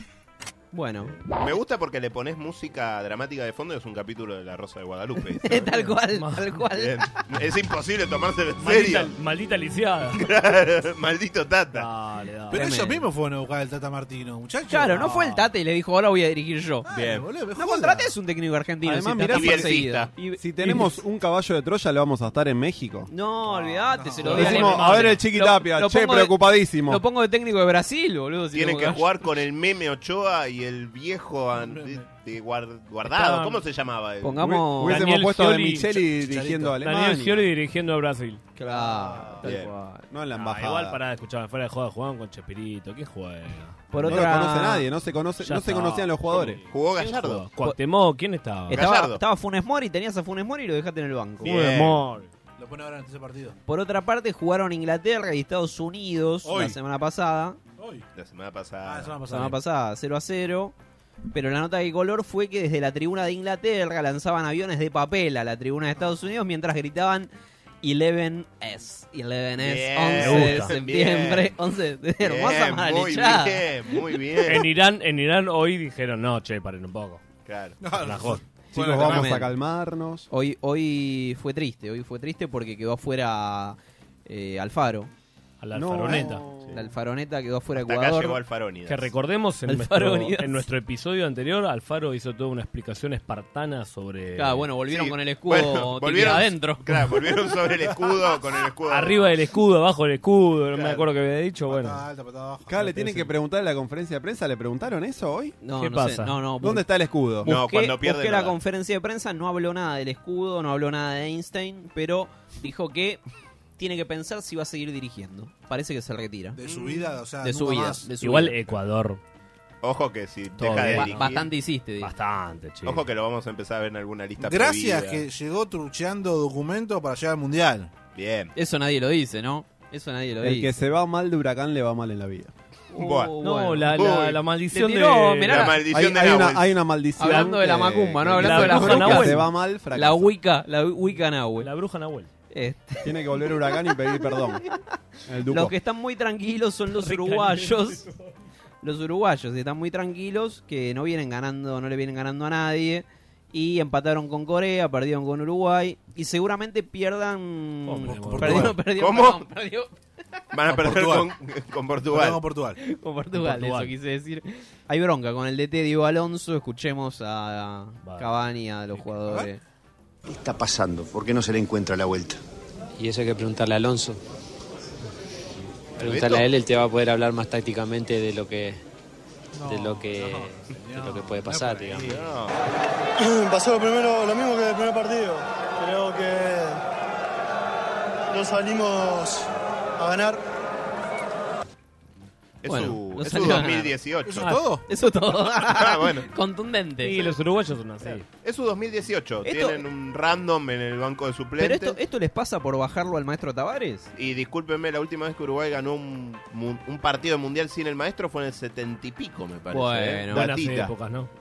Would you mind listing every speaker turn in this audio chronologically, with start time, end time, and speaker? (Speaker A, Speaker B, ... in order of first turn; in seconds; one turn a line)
Speaker A: 0.7-1.1
Speaker B: 1.3-5.6
Speaker A: 5.5-6.9
Speaker C: 5.6-6.6
Speaker B: 6.8-9.1
Speaker C: 8.6-10.2
Speaker B: 10.2-11.9
Speaker C: 11.7-13.0
Speaker D: 12.5-15.2
Speaker A: 14.7-16.9
Speaker C: 14.9-15.5
Speaker D: 16.9-18.1
Speaker A: 17.6-20.4
Speaker E: 18.8-19.8
Speaker B: 19.3-20.1
Speaker E: 20.4-23.1
Speaker A: 23.1-29.4
Speaker D: 23.6-24.8
Speaker C: 23.9-25.2
Speaker E: 24.2-27.0
Speaker B: 28.5-34.5
Speaker D: 31.6-32.1
Speaker C: 33.0-33.6
Speaker A: 34.2-35.1
Speaker E: 34.4-37.5
Speaker C: 34.8-36.1
Speaker D: 36.2-36.8
Speaker C: 36.8-38.5
Speaker A: 38.6-39.5
Speaker B: 39.2-39.7
Speaker C: 39.4-44.4
Speaker E: 40.1-41.0
Speaker A: 43.9-44.9
Speaker E: 44.0-46.6
Speaker C: 45.4-48.8
Speaker B: 46.7-47.4
Speaker A: 48.7-51.6
Speaker B: 48.7-49.2
Speaker B: 51.4-52.0
Speaker C: 51.4-52.3
Speaker D: 52.6-53.6
Speaker A: 53.7-57.6
Speaker D: 56.4-56.8
Speaker D: 57.8-58.0
Speaker B: 58.1-59.1
Speaker D: 58.8-59.6
Speaker A: 59.3-60.7
Speaker A: 61.3-67.3
Speaker A: 67.8-73.7
Speaker B: 69.6-71.5
Speaker C: 70.2-70.7
Speaker B: 72.2-74.7
Speaker C: 74.5-77.2
Speaker B: 77.5-77.8
Speaker D: 77.8-79.3
Speaker C: 78.0-78.4
Speaker E: 78.7-80.3
Speaker A: 78.9-79.5
Speaker A: 80.3-85.1
Speaker C: 85.6-86.5
Speaker E: 85.7-86.9
Speaker A: 86.7-88.4
Speaker B: 87.8-89.1
Speaker C: 88.9-94.7
Speaker A: 89.7-90.6
Speaker A: 94.4-96.8
Speaker B: 94.9-99.3
Speaker C: 98.9-102.0
Speaker B: 100.7-101.1
Speaker D: 101.7-103.3
Speaker E: 102.7-105.5
Speaker A: 105.6-106.8
Speaker C: 105.8-106.4
Speaker E: 106.6-107.5
Speaker A: 107.4-113.2
Speaker B: 107.5-108.6
Speaker A: 113.8-116.6
Speaker D: 116.5-118.1
Speaker B: 116.6-117.0
Speaker A: 117.4-118.7
Speaker C: 118.2-119.2
Speaker B: 119.8-121.5
Speaker C: 120.6-121.5
Speaker A: 120.9-122.1
Speaker C: 122.0-123.1
Speaker B: 122.8-125.2
Speaker D: 124.4-127.9
Speaker B: 128.2-128.5
Speaker A: 128.6-130.8
Speaker E: 130.4-132.5
Speaker A: 132.9-134.1
Speaker B: 133.0-133.3
Speaker C: 133.4-135.8
Speaker B: 133.9-134.4
Speaker A: 134.7-135.8
Speaker B: 135.4-136.7
Speaker E: 135.9-140.3
Speaker A: 137.2-141.7
Speaker C: 138.3-139.4
Speaker C: 141.6-142.3
Speaker A: 142.5-143.0
Speaker E: 143.0-144.7
Speaker A: 144.3-144.7
Speaker E: 145.3-145.8
Speaker A: 145.5-148.0
Speaker C: 146.9-148.2
Speaker A: 148.8-159.9
Speaker C: 157.9-158.8
Speaker D: 158.0-158.8
Speaker B: 159.0-159.4
Speaker B: 160.5-162.4
Speaker D: 160.7-161.3
Speaker D: 162.1-162.8
Speaker A: 162.8-169.6
Speaker C: 163.3-163.9
Speaker C: 168.0-169.1
Speaker D: 169.3-169.5
Speaker F: 170.3-172.4
Speaker G: 173.0-174.2
Speaker B: 176.0-176.5
Speaker G: 176.0-178.8
Speaker D: 179.6-182.4
Speaker G: 179.7-182.2
Speaker B: 182.0-182.5
Speaker H: 183.2-186.8
Speaker H: 188.3-190.5
Speaker B: 192.6-194.5
Speaker A: 192.7-194.0
Speaker D: 194.2-194.8
Speaker C: 194.4-194.7
Speaker A: 194.9-197.3
Speaker B: 195.6-196.2
Speaker C: 197.0-198.2
Speaker B: 198.1-202.0
Speaker A: 199.4-199.8
Speaker A: 201.6-204.1
Speaker B: 204.2-210.9
Speaker A: 209.7-210.5
Speaker C: 210.3-211.3